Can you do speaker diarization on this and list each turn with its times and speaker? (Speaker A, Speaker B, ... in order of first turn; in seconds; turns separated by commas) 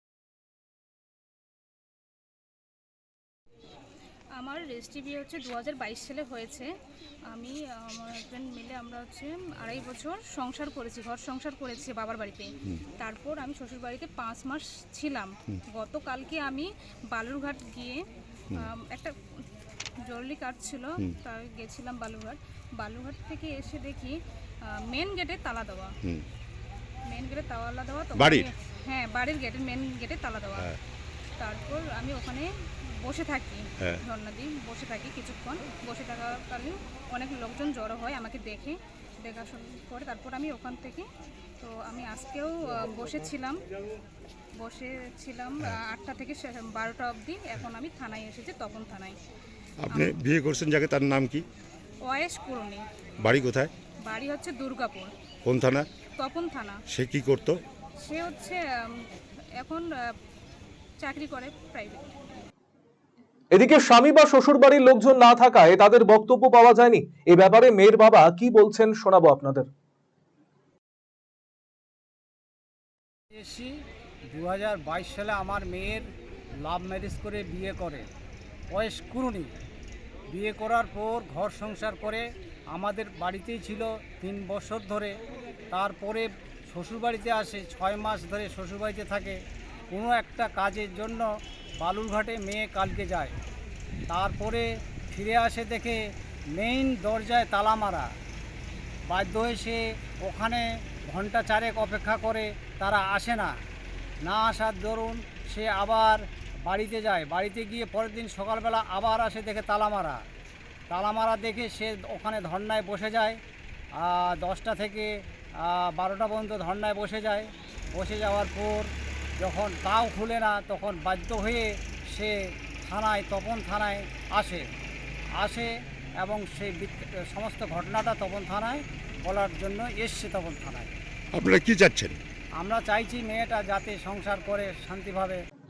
Speaker A: 4.4-6.7, Speaker A: 7.3-18.0, Speaker A: 18.5-19.1, Speaker A: 20.1-24.2, Speaker A: 24.7-25.9, Speaker A: 27.1-30.7, Speaker B: 28.2-28.5, Speaker A: 31.4-32.5, Speaker A: 33.0-41.1, Speaker A: 41.6-43.6, Speaker A: 44.6-49.2, Speaker B: 49.8-51.5, Speaker A: 49.9-50.2, Speaker A: 52.1-52.8, Speaker B: 53.2-53.7, Speaker A: 54.1-55.1, Speaker B: 55.5-55.9, Speaker A: 56.2-56.8, Speaker B: 56.9-57.6, Speaker A: 58.0-59.0, Speaker A: 61.0-62.2, Speaker C: 63.5-69.7, Speaker D: 73.3-73.7, Speaker D: 74.3-76.1, Speaker D: 76.6-78.1, Speaker D: 78.7-79.5, Speaker D: 80.3-85.2, Speaker D: 85.7-89.4, Speaker D: 89.9-93.3, Speaker D: 94.1-96.0, Speaker D: 96.5-98.1, Speaker D: 99.1-103.5, Speaker D: 104.2-110.2, Speaker D: 110.9-113.4, Speaker D: 114.0-115.1, Speaker D: 115.6-124.6, Speaker D: 125.4-130.9, Speaker B: 131.3-132.2, Speaker D: 132.6-135.4